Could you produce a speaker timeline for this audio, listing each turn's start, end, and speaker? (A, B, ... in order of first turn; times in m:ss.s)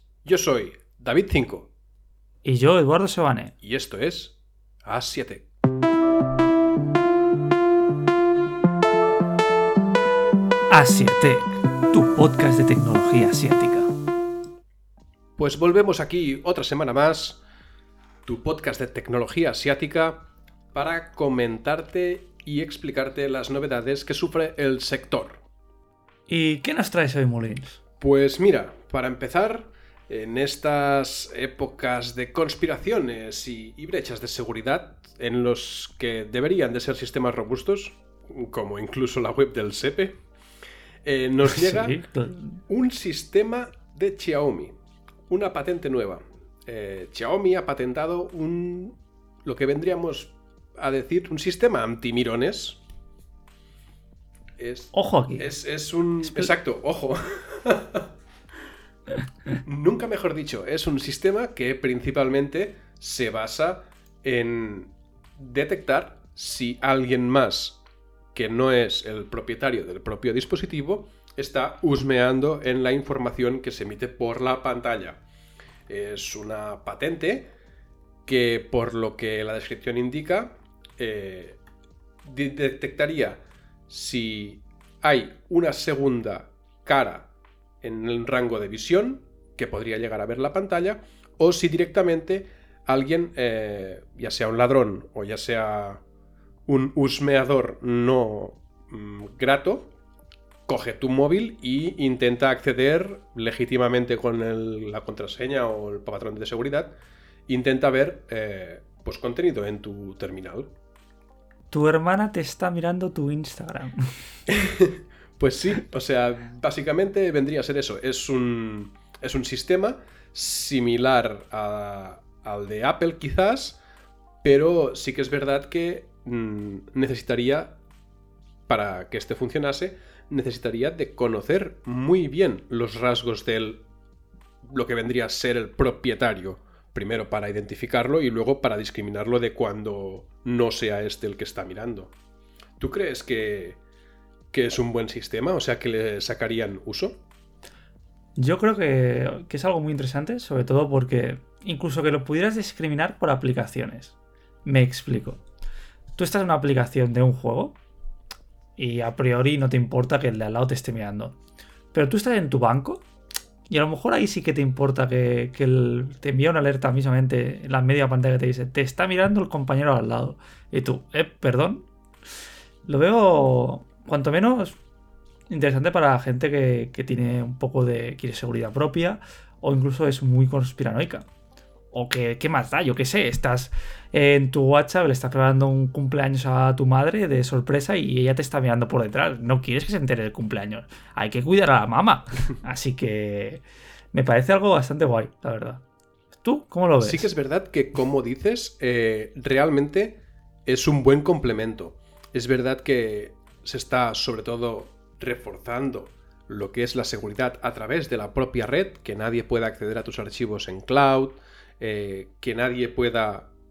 0:00.2-0:01.7 A
0:02.4-0:03.5 B
0:03.6-0:05.4 A
0:10.7-0:13.9 B
0:15.4-0:17.4 A
0:18.3-0:25.4 A
0:26.3-0:27.8 B
0:28.0-0:40.2 A
0:41.0-0:42.0 A
0:41.4-0:42.6 B
0:42.7-0:44.8 A
0:45.3-0:52.8 A
0:54.6-0:58.1 A
0:54.9-0:55.5 B
0:59.6-1:07.8 A
1:08.3-1:15.2 A
1:15.9-1:17.5 A
1:18.3-1:21.6 A
1:22.2-1:27.3 A
1:27.8-1:36.0 A
1:36.7-1:39.9 A
1:40.7-1:46.9 A
1:47.5-1:50.7 A
1:51.7-1:54.1 B
1:54.5-2:03.8 A
2:04.4-2:07.8 A
2:08.7-2:13.8 A
2:14.6-2:22.1 A
2:22.8-2:23.8 A
2:24.5-2:27.2 A
2:28.4-2:35.4 B
2:36.2-2:37.8 B
2:38.8-2:41.4 B
2:41.9-2:43.0 B
2:43.7-2:51.9 B
2:52.8-2:54.8 B
2:55.5-3:01.3 B
3:01.9-3:15.8 B
3:16.4-3:17.3 B
3:17.0-3:33.5 A